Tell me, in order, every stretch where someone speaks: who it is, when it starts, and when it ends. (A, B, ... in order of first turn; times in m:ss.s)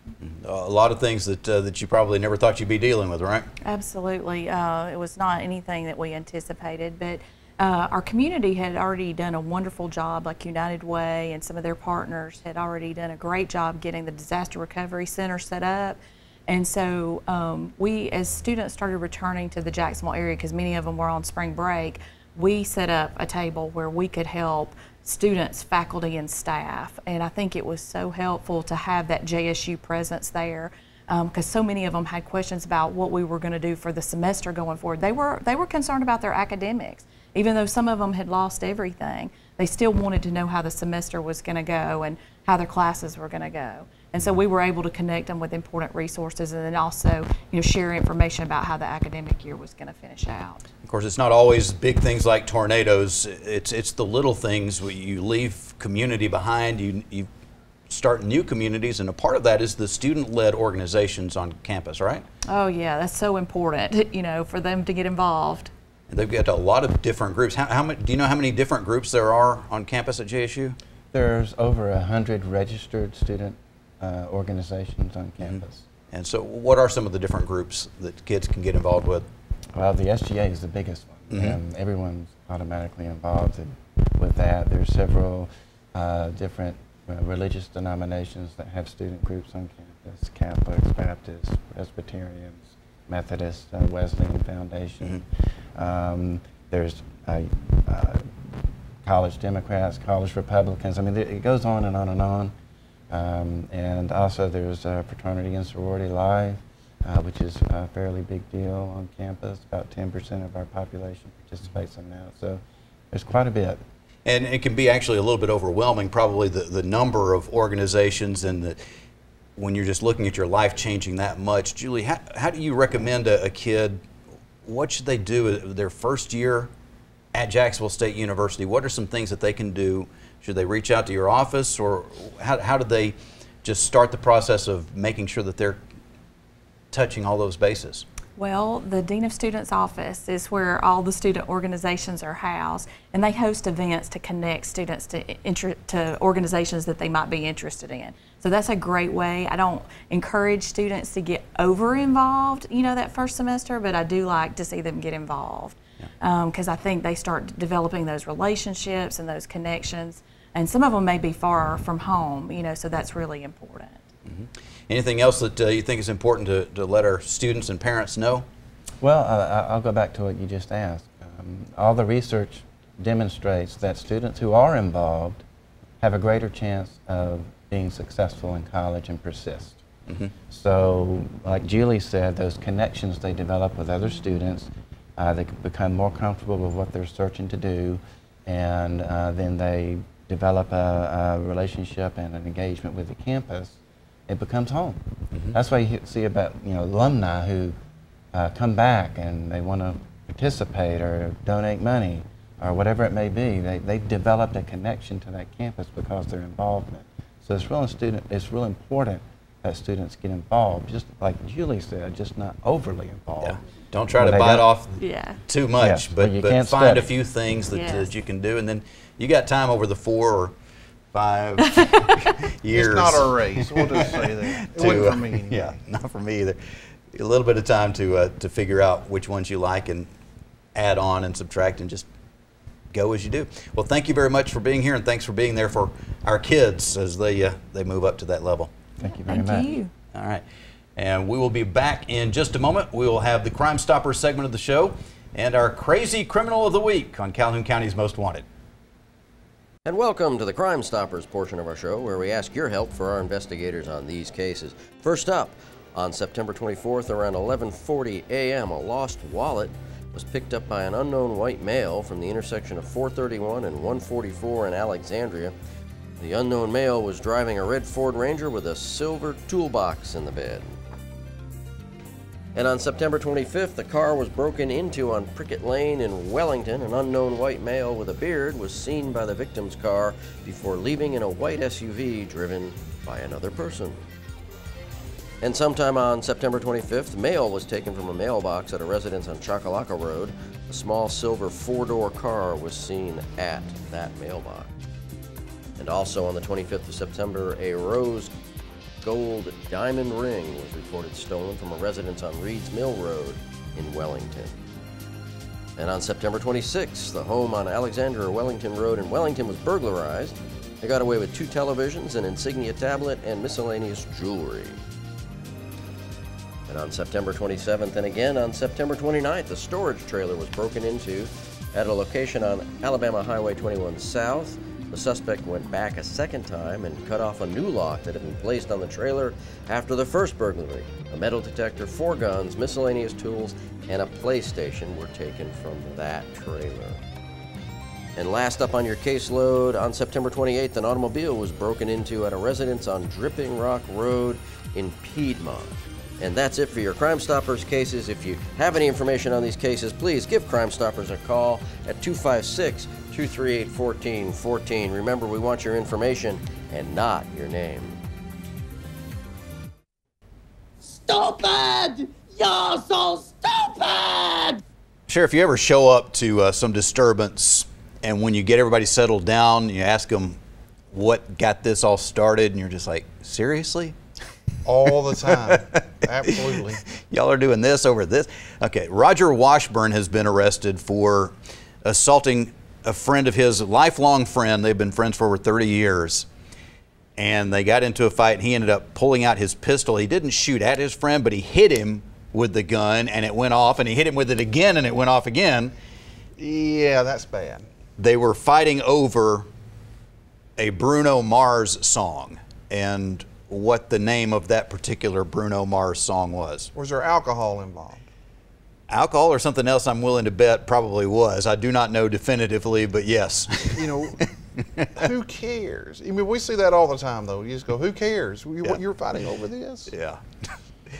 0:00.2-0:03.5 A
0:03.6-0:50.6 B
0:50.8-0:57.3 A
0:57.9-1:02.2 A
1:02.5-1:05.7 B
1:06.1-1:10.8 A
1:11.1-1:15.9 C
1:15.4-1:19.2 A
1:19.7-1:38.3 C
1:21.3-1:21.6 A
1:39.0-1:42.5 C
1:43.1-1:52.6 C
1:53.1-1:53.8 C
1:54.2-1:58.8 A
1:59.6-2:04.0 A
2:04.6-2:06.7 A
2:07.3-2:15.8 A
2:16.9-2:18.0 A
2:18.4-2:44.0 B
2:44.2-2:48.4 A
2:49.0-2:55.4 C
2:56.0-2:59.8 C
3:00.1-3:00.3 A
3:00.5-3:17.7 C
3:15.3-3:15.6 A
3:18.3-3:33.6 C
3:33.4-3:40.5 A
3:34.1-3:34.7 C
3:35.0-3:35.4 B
3:35.8-3:37.1 C
3:37.7-3:38.1 B
3:41.1-3:46.6 A
3:41.6-3:42.3 B
3:42.7-3:45.8 D
3:47.1-3:50.1 A
3:50.7-3:52.0 A
3:52.9-3:58.7 A
3:59.0-3:59.7 C
3:59.0-3:59.9 B
4:00.1-4:00.4 A
4:01.0-4:08.4 A
4:09.8-4:25.6 E
4:26.2-4:30.8 E
4:32.5-4:44.0 E
4:45.4-4:54.7 E
4:55.8-4:58.3 E
4:59.0-5:04.6 E
5:05.8-5:14.8 E
5:16.7-5:37.0 E
5:38.2-5:58.0 E
6:01.0-6:04.6 F
6:05.1-6:10.4 A
6:10.9-6:14.0 A
6:14.6-6:16.8 D
6:15.3-6:26.3 A
6:27.2-6:35.7 A
6:36.4-6:37.6 D
6:38.0-6:39.5 A
6:40.6-6:46.7 A
6:46.7-6:48.0 D
6:48.9-6:55.1 A
6:53.7-6:54.3 D
6:55.0-6:59.9 D
6:59.9-7:00.5 A